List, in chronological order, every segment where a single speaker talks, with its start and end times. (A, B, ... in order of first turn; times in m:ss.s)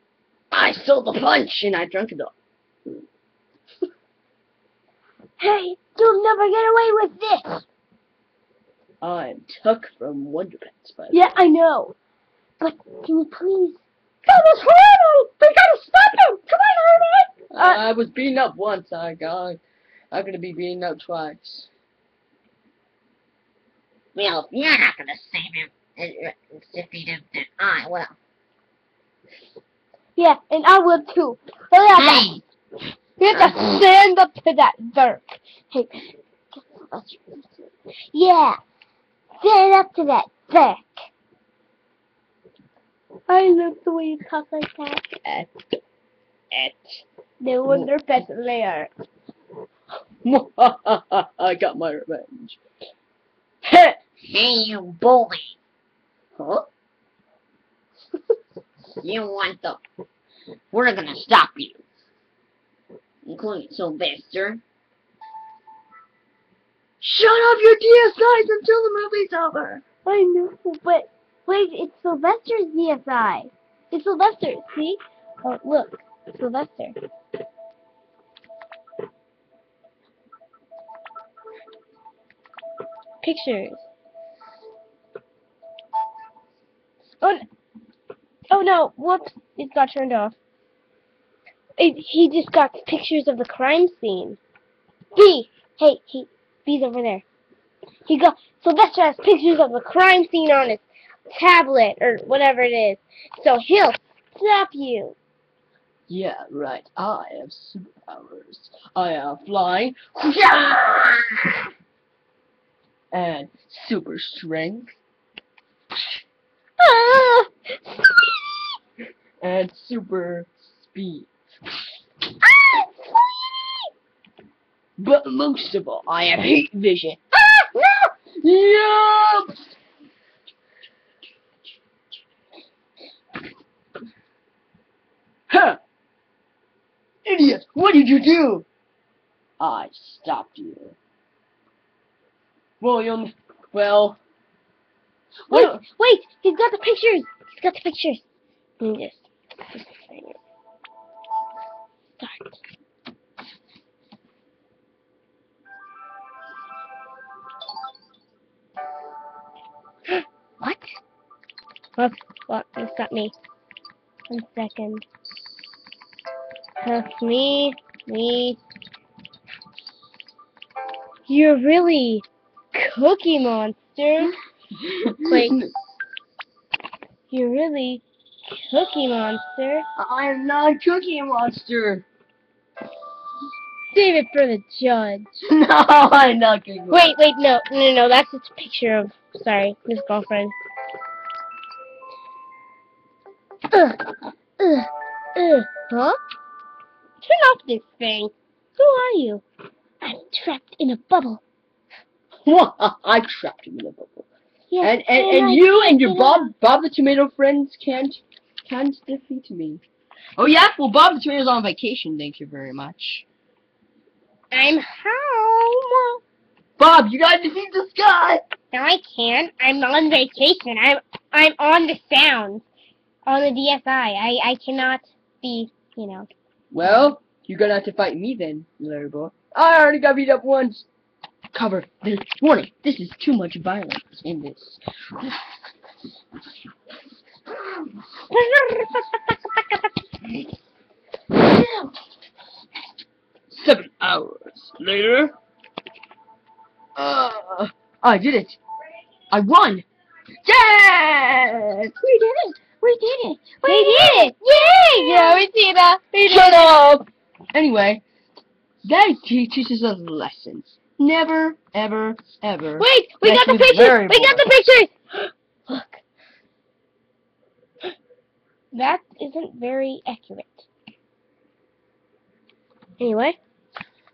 0:00.5-0:02.3 A
0:05.4-0:07.6 B
0:09.0-0:11.2 A
0:11.1-0:11.9 B
0:12.6-0:17.8 B
0:17.5-0:19.6 A
0:20.1-0:21.7 A
0:24.1-0:28.2 C
0:30.2-0:32.3 B
0:32.0-0:32.4 C
0:33.2-0:38.6 B
0:33.3-0:33.8 C
0:39.4-0:41.0 B
0:43.3-0:45.1 B
0:45.2-0:45.5 A
0:46.5-0:47.0 A
0:47.4-0:48.9 B
0:47.6-0:47.9 A
0:50.2-0:52.6 A
0:53.6-0:54.0 A
0:54.2-0:55.5 C
0:56.4-0:56.6 A
0:59.0-0:59.8 C
1:00.7-1:01.8 C
1:03.2-1:04.6 C
1:07.0-1:09.8 A
1:10.0-1:17.0 B
1:23.2-1:23.8 B
1:28.5-1:30.4 B
1:31.8-1:34.4 B
1:35.1-1:37.2 B
1:38.1-1:45.2 B
1:46.1-1:51.3 A
1:53.1-1:55.0 A
1:56.8-1:57.5 B
1:59.4-2:01.3 A
2:05.0-2:09.5 A
2:15.5-2:15.8 A
2:17.2-2:18.6 A
2:19.6-2:21.0 A
2:22.8-2:24.2 A
2:25.5-2:25.8 A
2:25.5-2:28.2 B
2:28.8-2:30.4 B
2:32.2-2:32.5 B
2:42.0-2:43.3 B
2:44.3-2:45.0 B
2:46.8-2:48.6 B
2:51.3-2:54.3 B
2:54.8-2:55.7 A
2:55.3-2:55.6 B
2:57.3-2:59.8 B
3:00.0-3:02.0 A
3:03.9-3:05.3 B
3:05.4-3:07.1 A
3:06.9-3:10.5 B
3:13.7-3:16.2 B
3:17.2-3:19.4 B
3:20.0-3:21.4 B
3:22.4-3:24.3 A
3:24.7-3:26.5 B
3:24.8-3:29.8 A
3:30.4-3:33.2 A
3:34.5-3:36.2 B
3:36.8-3:38.4 A
3:38.7-3:42.6 B
3:43.2-3:46.3 B
3:46.7-3:50.8 A
3:51.5-3:55.3 A
3:58.3-3:59.6 B
4:03.5-4:05.3 A
4:07.0-4:08.6 A
4:09.3-4:09.8 A
4:10.4-4:15.5 A
4:13.6-4:16.7 B
4:16.2-4:18.0 A
4:18.8-4:24.4 A
4:22.8-4:26.0 B
4:28.7-4:30.6 B
4:33.0-4:33.4 B